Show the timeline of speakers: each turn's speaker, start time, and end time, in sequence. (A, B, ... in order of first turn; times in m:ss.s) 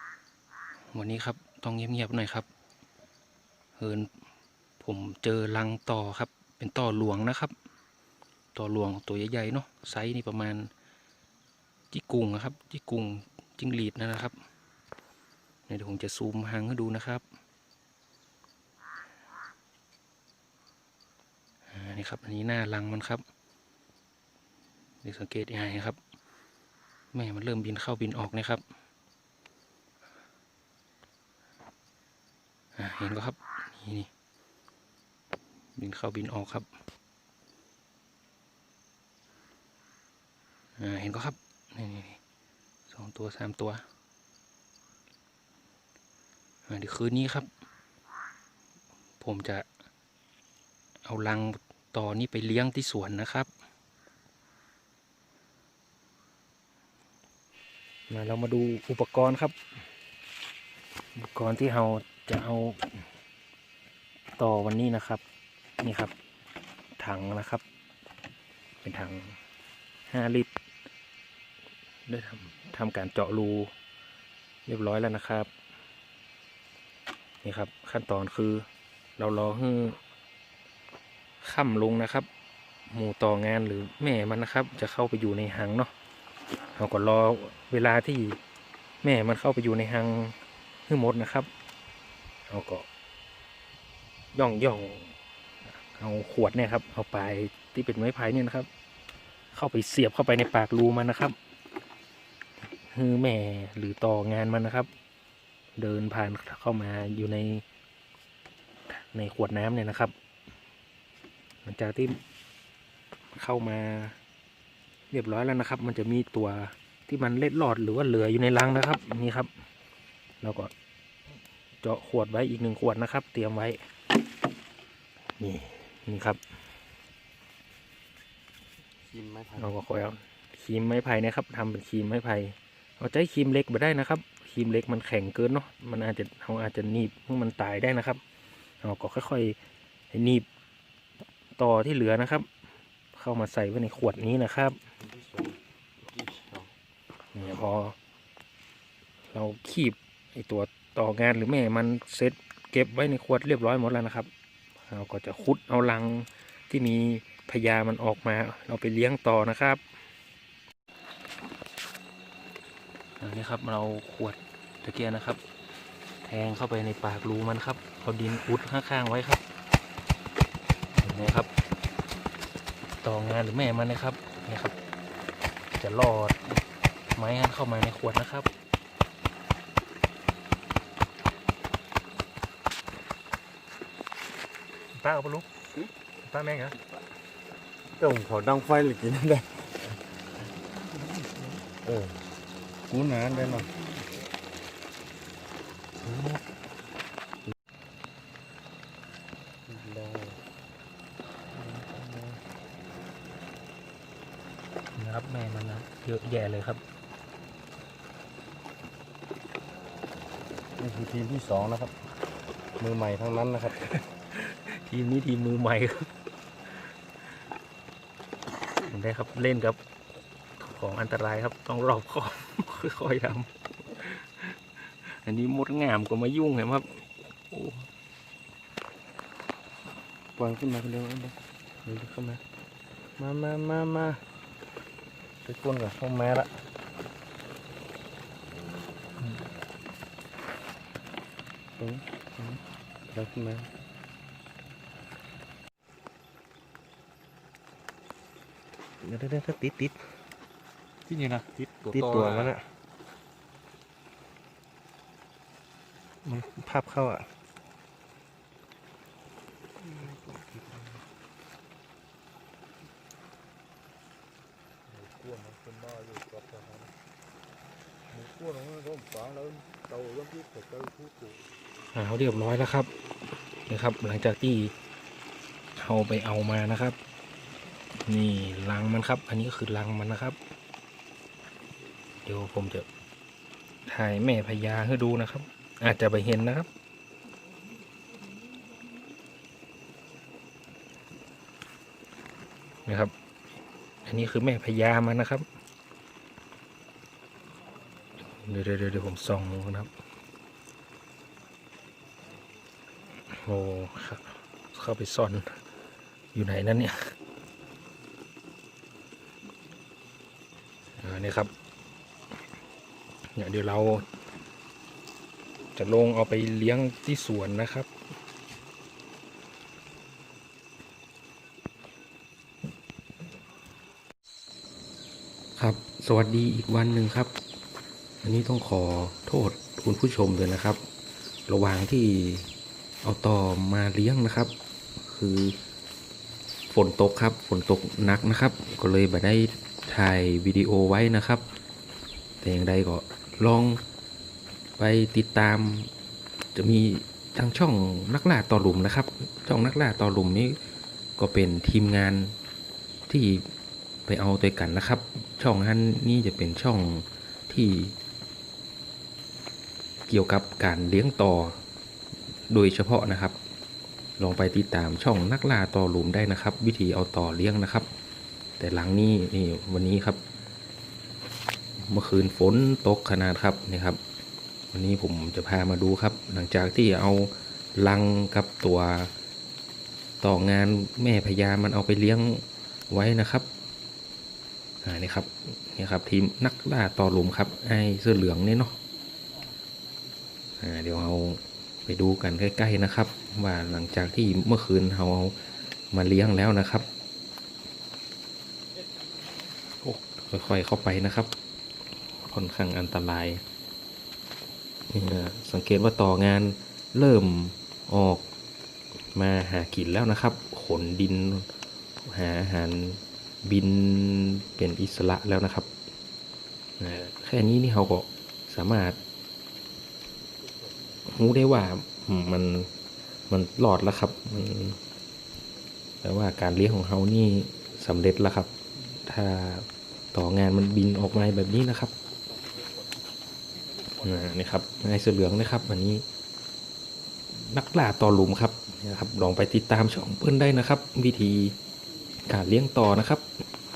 0:00.9-0:02.4 A
0:03.8-0:04.1 A
0:04.8-0:07.5 A
0:08.5-0:10.7 A
0:11.9-0:14.3 A
0:15.7-0:17.2 A
0:21.7-0:23.2 A
0:25.0-0:26.0 A
0:27.1-0:28.6 A
0:32.8-0:34.1 A
0:35.8-0:36.7 A
0:40.8-0:42.2 A
0:42.9-0:43.8 A
0:46.7-0:47.5 A
0:49.2-0:49.6 A
0:51.0-0:53.5 A
0:58.1-0:59.6 A
1:01.2-1:02.8 A
1:04.4-1:05.2 A
1:05.8-1:06.1 A
1:07.0-1:07.6 A
1:08.8-1:09.4 A
1:10.1-1:10.5 A
1:12.1-1:13.7 A
1:14.6-1:15.5 A
1:17.4-1:18.6 A
1:19.2-1:20.0 A
1:21.4-1:22.3 A
1:22.9-1:25.9 A
1:26.8-1:28.4 A
1:29.0-1:30.3 A
1:30.9-1:31.5 A
1:32.5-1:32.8 A
1:34.3-1:35.1 A
1:35.9-1:38.7 A
1:39.5-1:41.3 A
1:42.8-1:44.9 A
1:45.8-1:47.6 A
1:48.9-1:50.1 A
1:51.6-1:52.2 A
1:53.4-1:54.1 A
1:55.1-1:59.5 A
2:00.4-2:00.7 A
2:01.8-2:03.8 A
2:05.4-2:06.4 A
2:09.0-2:09.7 B
2:09.6-2:18.2 A
2:18.8-2:19.6 A
2:20.1-2:20.4 A
2:21.6-2:22.5 A
2:23.1-2:24.8 A
2:25.0-2:26.7 B
2:27.3-2:27.9 A
2:29.3-2:34.3 A
2:34.9-2:39.8 A
2:43.2-2:45.4 A
2:46.2-2:49.4 A
2:51.0-2:51.5 A
2:53.0-2:54.7 A
2:55.7-2:56.4 A
2:57.2-2:58.5 A
3:05.0-3:05.4 C
3:05.0-3:05.4 A
3:06.3-3:06.8 C
3:08.0-3:10.0 B
3:11.8-3:12.2 B
3:12.9-3:13.7 B
3:16.0-3:16.4 A
3:19.7-3:20.4 B
3:21.5-3:22.4 B
3:24.9-3:26.8 A
3:30.8-3:32.0 B
3:32.8-3:33.8 B
3:34.4-3:36.1 A
3:38.8-3:39.8 A
3:40.6-3:47.9 A
3:50.4-3:52.4 B
3:53.2-3:54.2 B
3:55.4-3:56.6 B
4:01.8-4:03.7 B
4:09.0-4:09.8 C
4:09.2-4:09.9 A
4:11.1-4:12.5 C
4:11.9-4:12.5 B
4:16.3-4:17.1 C
4:16.3-4:17.2 A
4:24.9-4:26.9 B
4:28.1-4:31.4 B
4:31.9-4:32.9 A
4:33.7-4:34.7 A
4:35.8-4:37.0 A
4:38.0-4:40.4 A
4:42.2-4:42.9 A
4:43.8-4:46.7 A
4:52.8-4:53.1 A
4:54.0-4:55.4 A
4:58.2-4:59.9 A
5:03.3-5:05.5 A
5:06.3-5:07.1 A
5:11.0-5:11.5 A
5:13.3-5:14.0 A
5:15.8-5:17.9 A
5:25.6-5:27.3 A
5:28.2-5:30.8 A
5:31.5-5:32.5 A
5:33.0-5:35.6 A
5:36.7-5:41.5 A
5:42.4-5:43.8 A
5:44.8-5:45.9 A
5:46.5-5:50.6 A
5:51.2-5:52.4 A
5:53.1-5:53.5 A
5:54.1-5:58.0 A
6:00.1-6:01.6 A
6:02.5-6:03.4 A
6:04.2-6:07.9 A
6:08.6-6:10.2 A
6:11.8-6:14.0 A
6:14.7-6:19.1 A
6:20.2-6:23.5 A
6:24.8-6:28.8 A
6:30.6-6:35.3 A
6:35.9-6:36.9 A
6:39.8-6:41.3 A
6:42.2-6:43.4 A
6:44.9-6:48.2 A
6:49.1-6:51.5 A
6:52.0-6:55.7 A
6:56.8-6:59.0 A
7:01.0-7:02.7 A
7:03.3-7:04.8 A
7:06.0-7:11.9 A
7:14.0-7:16.0 A
7:17.3-7:21.6 A
7:22.3-7:23.3 A